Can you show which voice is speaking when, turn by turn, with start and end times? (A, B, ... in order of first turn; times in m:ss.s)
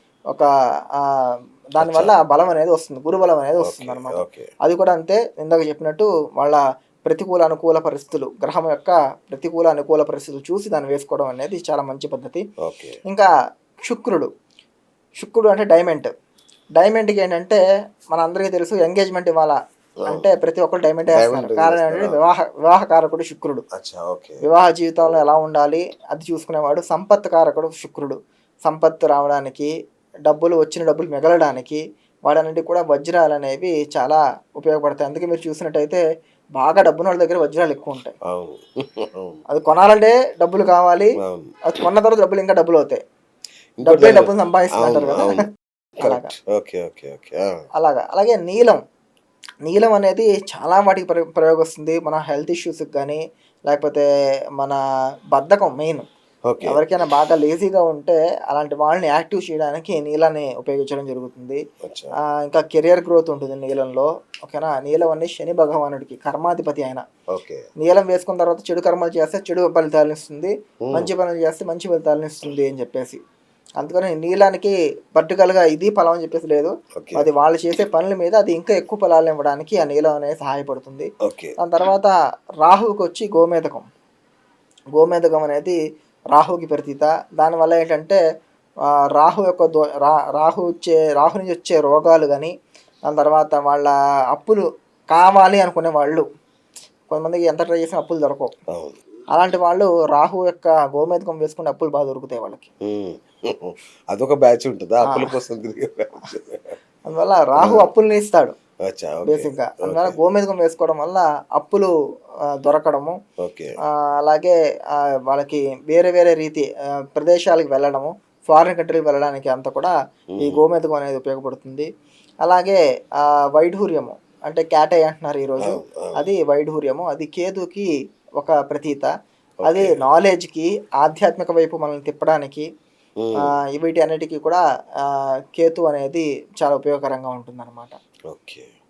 0:00.3-0:12.4 A
0:01.8-0:02.1 B
0:03.6-0:04.5 B
0:12.6-0:13.0 B
0:13.8-0:14.3 A
0:15.2-0:16.1 A
0:16.8-0:17.6 A
0:18.1-0:23.6 A
0:21.1-0:22.2 B
0:23.8-0:24.4 B
0:24.4-0:29.7 A
0:30.3-0:36.0 A
0:36.6-0:38.1 A
0:38.3-0:39.4 B
0:39.5-0:41.1 A
0:41.2-0:41.5 B
0:41.7-0:43.0 A
0:43.8-0:45.4 B
0:43.8-0:45.4 A
0:46.0-0:47.5 B
0:46.0-0:46.3 A
0:47.8-0:48.8 A
0:49.6-0:54.0 A
0:55.3-0:56.1 A
0:56.5-0:56.8 B
0:56.6-1:01.6 A
1:01.8-1:02.1 B
1:02.4-1:07.0 A
1:07.3-1:07.6 B
1:07.8-1:13.2 A
1:10.9-1:11.1 B
1:13.8-1:21.1 A
1:17.0-1:17.3 B
1:21.3-1:21.6 B
1:21.6-1:23.9 A
1:25.0-1:25.8 A
1:26.3-1:28.2 A
1:29.2-1:32.5 A
1:33.1-1:36.2 A
1:37.1-1:38.5 A
1:39.3-1:42.7 A
1:42.9-1:46.8 B
1:45.1-1:45.4 A
1:47.0-1:48.6 A
1:47.6-1:47.9 B
1:48.8-1:50.2 B
1:49.2-1:51.9 A
1:52.5-1:53.2 A
1:53.4-1:53.7 B
1:54.2-2:01.9 A
2:00.4-2:00.6 B
2:02.4-2:09.1 A
2:05.6-2:06.3 B
2:09.6-2:10.0 B
2:09.6-2:12.7 A
2:13.2-2:13.5 B
2:13.5-2:18.0 A
2:18.3-2:18.7 B